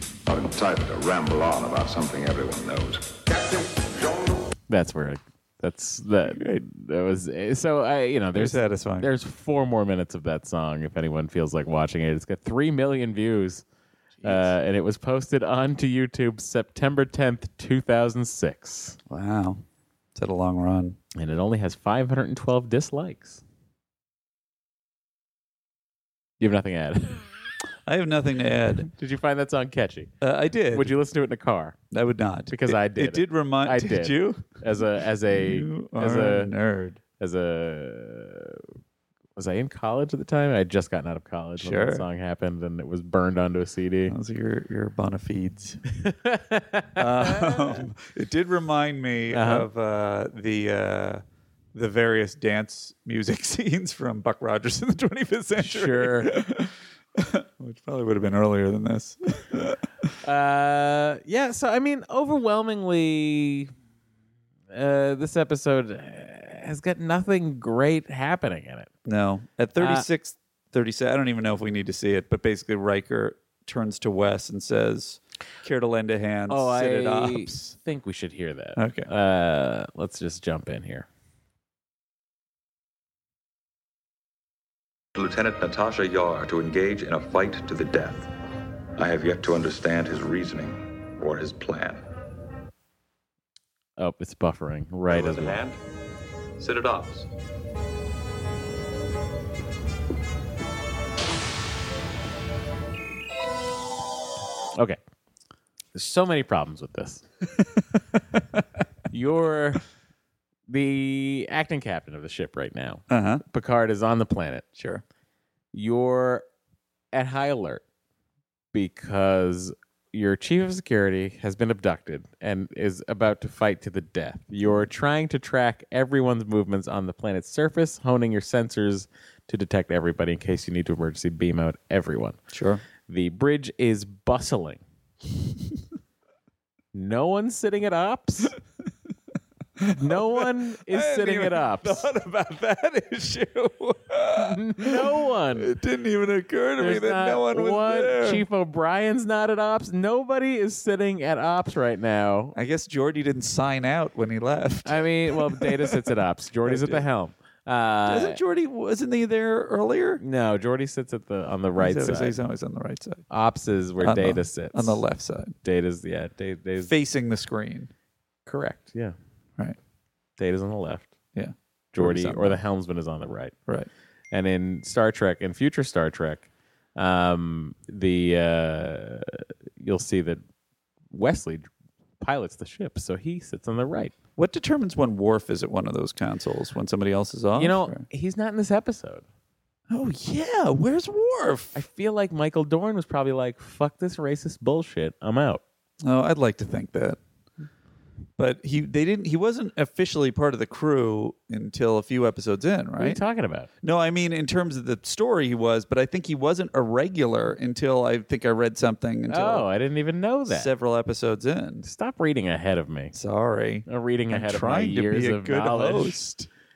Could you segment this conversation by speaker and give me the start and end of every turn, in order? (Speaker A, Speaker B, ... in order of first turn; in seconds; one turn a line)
Speaker A: 0.2-4.3
Speaker B: 4.7-13.6
Speaker C: 6.3-6.6
Speaker C: 8.3-9.1
Speaker C: 14.2-14.5
Speaker B: 14.2-19.0
Speaker C: 19.1-19.6
Speaker C: 20.1-21.0
Speaker B: 21.1-23.4
Speaker B: 26.4-27.2
Speaker C: 27.9-28.9
Speaker B: 28.9-30.1
Speaker C: 30.2-30.9
Speaker B: 30.7-31.8
Speaker C: 31.9-34.6
Speaker B: 32.5-36.5
Speaker C: 35.2-37.0
Speaker B: 37.2-38.6
Speaker B: 39.4-44.1
Speaker C: 41.6-42.0
Speaker C: 44.1-45.8
Speaker B: 46.0-47.8
Speaker C: 47.0-51.2
Speaker B: 49.3-49.6
Speaker C: 51.7-60.1
Speaker B: 55.6-56.3
Speaker B: 60.2-63.7
Speaker B: 64.7-68.9
Speaker C: 69.0-77.7
Speaker B: 69.8-70.0
Speaker B: 76.5-81.1
Speaker C: 78.8-79.1
Speaker D: 85.1-88.3
Speaker D: 89.0-92.0
Speaker B: 94.0-95.6
Speaker D: 95.1-95.7
Speaker D: 96.6-97.2
Speaker B: 105.9-107.2
Speaker B: 109.1-109.8
Speaker B: 110.7-114.7
Speaker C: 113.1-113.4
Speaker C: 114.8-115.0
Speaker B: 115.7-116.4
Speaker B: 117.1-117.8
Speaker B: 118.7-132.4
Speaker C: 132.5-132.8
Speaker B: 133.0-134.8
Speaker B: 136.9-138.6
Speaker C: 139.8-148.4
Speaker B: 140.0-142.1
Speaker B: 144.3-145.7
Speaker B: 146.8-152.6
Speaker C: 152.5-157.0
Speaker B: 154.8-158.4
Speaker C: 158.1-160.2
Speaker B: 160.2-162.3
Speaker C: 161.8-163.2
Speaker B: 163.3-165.0
Speaker C: 164.0-165.6
Speaker B: 165.6-166.9
Speaker C: 166.8-167.9
Speaker B: 168.4-169.2
Speaker B: 170.4-171.1
Speaker C: 171.3-172.6
Speaker B: 171.9-173.5
Speaker B: 174.3-180.4
Speaker B: 181.1-181.7
Speaker B: 182.2-184.1
Speaker C: 184.4-188.0
Speaker B: 187.6-189.2
Speaker C: 189.9-191.8
Speaker B: 191.7-195.6
Speaker C: 196.0-197.2
Speaker C: 198.4-203.2
Speaker B: 203.0-203.7
Speaker C: 203.8-209.7
Speaker B: 209.3-210.7
Speaker C: 210.5-211.9
Speaker B: 211.8-213.1
Speaker C: 213.1-216.5
Speaker B: 213.9-216.2